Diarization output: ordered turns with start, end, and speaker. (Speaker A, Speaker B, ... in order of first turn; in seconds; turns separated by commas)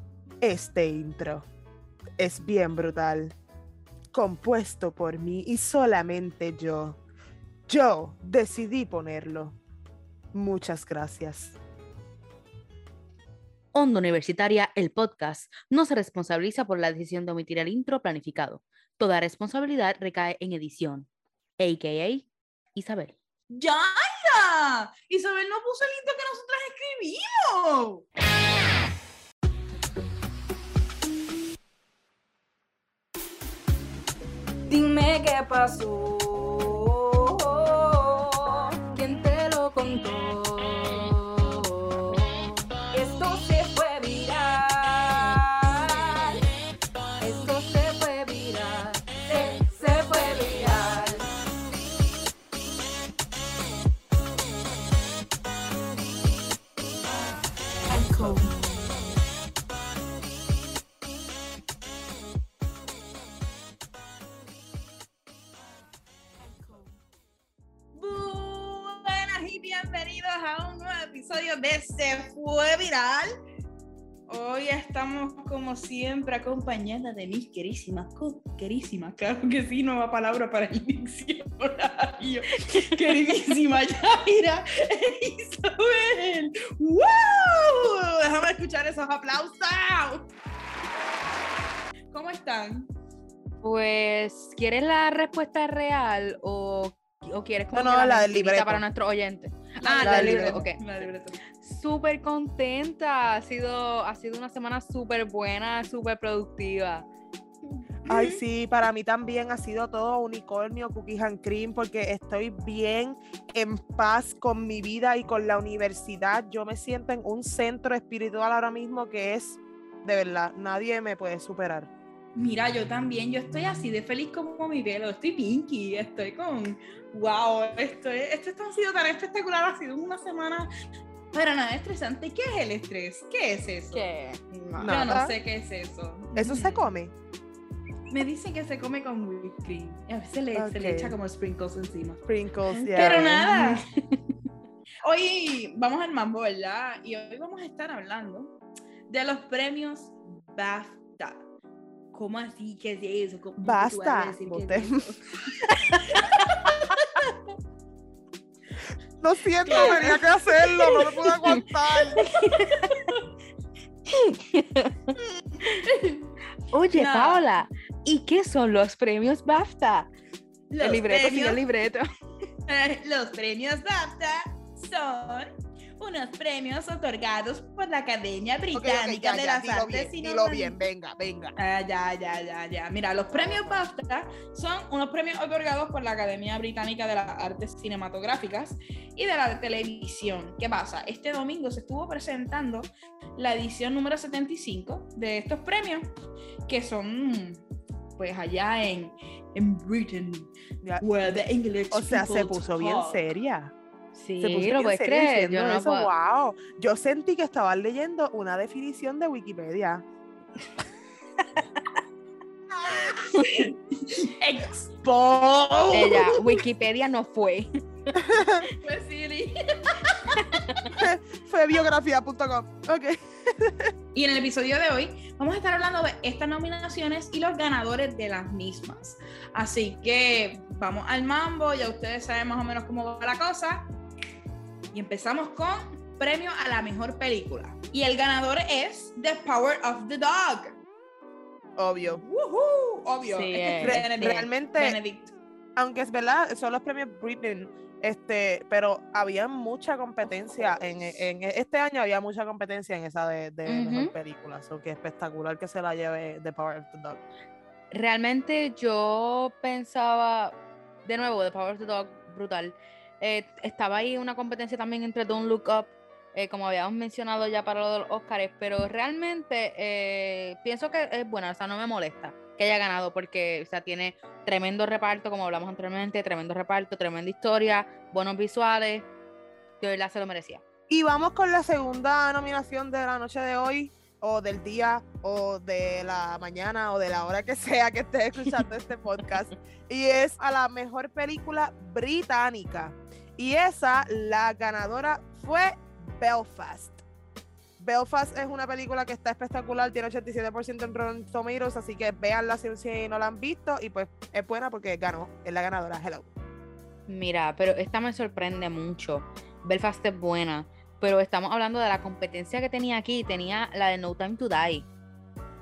Speaker A: 0.4-1.5, Speaker A: 2.2-3.4, Speaker A: 4.1-7.0, Speaker A: 7.7-9.6, Speaker A: 10.3-11.6, Speaker B: 13.7-23.1, Speaker C: 23.5-28.0, Speaker B: 39.0-40.8, Speaker B: 43.5-44.5, Speaker B: 47.3-48.7, Speaker B: 49.4-51.2, Speaker C: 57.9-58.5, Speaker C: 66.6-66.9, Speaker C: 68.0-73.3, Speaker C: 74.3-90.3, Speaker C: 92.1-92.9, Speaker B: 93.6-100.8, Speaker A: 97.7-98.8, Speaker C: 99.8-101.4, Speaker A: 100.0-100.6, Speaker B: 101.6-107.1, Speaker C: 107.7-108.4, Speaker A: 108.1-121.9, Speaker C: 122.4-130.7, Speaker C: 131.3-134.1, Speaker B: 133.9-135.0, Speaker C: 134.8-136.8, Speaker A: 134.8-135.3, Speaker A: 136.4-137.1, Speaker C: 138.1-143.9, Speaker A: 140.5-141.2, Speaker A: 142.3-143.6, Speaker C: 145.0-148.5, Speaker C: 149.1-151.4, Speaker B: 152.2-155.1, Speaker A: 153.6-155.1, Speaker B: 155.9-156.7, Speaker C: 156.1-157.4, Speaker A: 159.2-162.3, Speaker C: 159.7-160.9, Speaker B: 162.4-163.0, Speaker C: 162.4-163.2, Speaker B: 164.1-165.2, Speaker C: 165.6-166.2, Speaker B: 166.7-170.1, Speaker C: 166.9-167.5, Speaker C: 170.7-171.6, Speaker B: 170.8-172.1, Speaker C: 172.7-180.8, Speaker A: 178.7-181.6, Speaker C: 181.6-196.1, Speaker A: 183.4-183.8, Speaker C: 196.7-197.6, Speaker C: 198.2-200.5, Speaker C: 201.0-203.2, Speaker A: 201.9-203.7, Speaker B: 204.2-206.1, Speaker A: 204.4-210.0, Speaker C: 212.9-214.9, Speaker A: 215.0-216.0, Speaker C: 215.5-216.6, Speaker B: 215.9-218.2, Speaker A: 218.2-218.7, Speaker C: 218.8-220.4, Speaker B: 220.4-220.9, Speaker A: 220.9-223.9, Speaker C: 224.1-233.9, Speaker C: 234.9-240.8, Speaker A: 241.8-242.2, Speaker C: 242.1-245.3, Speaker B: 243.3-244.0, Speaker A: 243.8-245.0, Speaker A: 245.8-257.2, Speaker B: 253.7-254.1, Speaker B: 257.9-279.1, Speaker B: 279.8-280.6, Speaker A: 280.9-297.0, Speaker A: 297.8-306.3, Speaker B: 307.1-314.9